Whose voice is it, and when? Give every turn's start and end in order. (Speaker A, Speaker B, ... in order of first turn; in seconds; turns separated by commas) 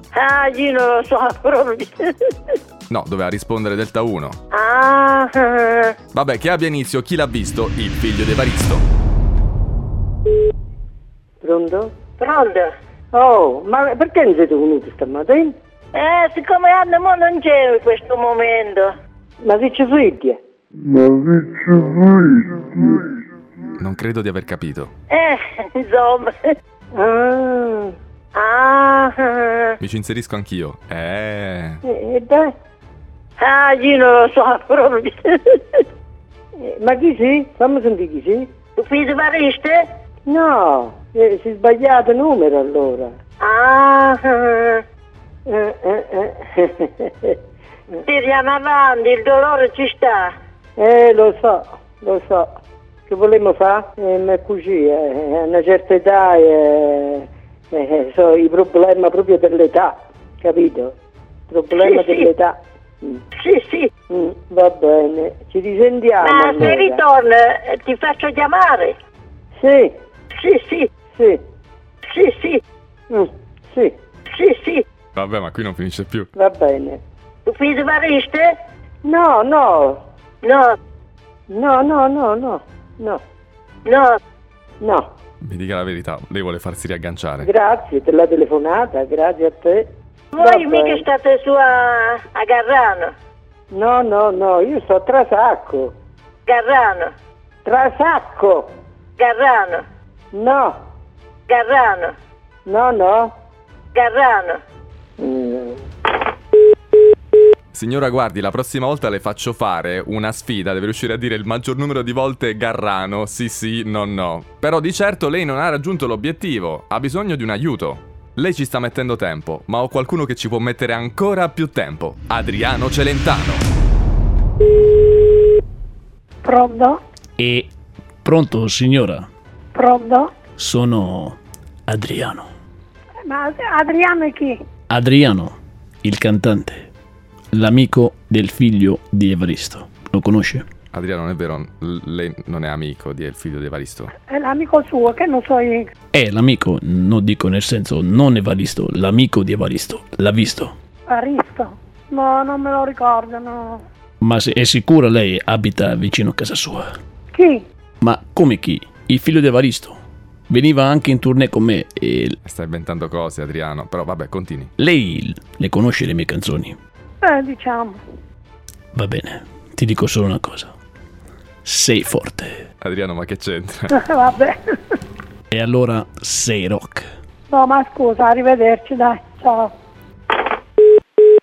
Speaker A: 0.1-2.1, Speaker B: 2.9-4.4, Speaker A: 4.5-5.9, Speaker B: 6.1-8.8, Speaker C: 11.4-11.9, Speaker A: 12.2-12.7, Speaker C: 13.1-15.5, Speaker A: 15.9-18.9, Speaker C: 19.4-20.4, Speaker B: 23.8-24.9, Speaker A: 25.1-26.3, Speaker C: 26.9-27.9, Speaker A: 28.3-29.8, Speaker B: 29.8-31.8, Speaker C: 31.8-32.5, Speaker A: 33.4-35.8, Speaker C: 36.6-38.5, Speaker A: 38.8-39.8, Speaker C: 40.2-43.1, Speaker A: 43.4-44.8, Speaker C: 45.5-47.4, Speaker A: 48.0-50.3, Speaker C: 50.8-52.5, Speaker C: 53.1-60.9, Speaker C: 61.5-63.2, Speaker A: 61.7-62.3, Speaker A: 63.4-63.9, Speaker C: 64.1-67.0, Speaker A: 66.2-68.9, Speaker C: 69.6-69.9, Speaker A: 70.3-70.9, Speaker C: 71.1-71.4, Speaker A: 72.1-72.6, Speaker C: 73.1-73.9, Speaker A: 74.3-74.8, Speaker B: 75.1-76.3, Speaker C: 76.3-77.0, Speaker A: 77.5-78.5, Speaker C: 79.0-80.0, Speaker A: 80.4-80.8, Speaker C: 81.5-83.2, Speaker A: 83.8-84.2, Speaker C: 84.8-85.1, Speaker B: 85.4-87.5, Speaker C: 87.4-89.9, Speaker A: 90.3-93.1, Speaker C: 90.4-91.0, Speaker C: 93.7-95.9, Speaker A: 96.5-97.1, Speaker C: 97.6-98.7, Speaker A: 99.2-99.8, Speaker C: 100.3-100.8, Speaker A: 101.5-102.1, Speaker C: 102.7-103.3, Speaker A: 103.9-104.6, Speaker C: 105.2-105.8, Speaker B: 107.7-123.7, Speaker D: 126.4-127.0, Speaker E: 127.4-127.7, Speaker E: 128.2-129.3, Speaker D: 129.7-130.4, Speaker E: 130.6-132.5, Speaker D: 133.2-134.6, Speaker E: 134.9-136.9, Speaker E: 137.5-140.7, Speaker B: 140.9-144.1, Speaker D: 144.3-145.9, Speaker E: 146.1-150.7, Speaker D: 151.1-153.8, Speaker E: 154.2-156.9, Speaker D: 157.3-157.6, Speaker E: 158.0-160.0, Speaker E: 160.5-162.4, Speaker B: 162.4-164.7, Speaker E: 164.8-166.8, Speaker D: 167.2-168.0, Speaker E: 168.9-170.7, Speaker E: 171.6-172.6, Speaker B: 172.8-173.9, Speaker D: 173.9-174.9, Speaker E: 175.5-177.0, Speaker D: 177.5-179.7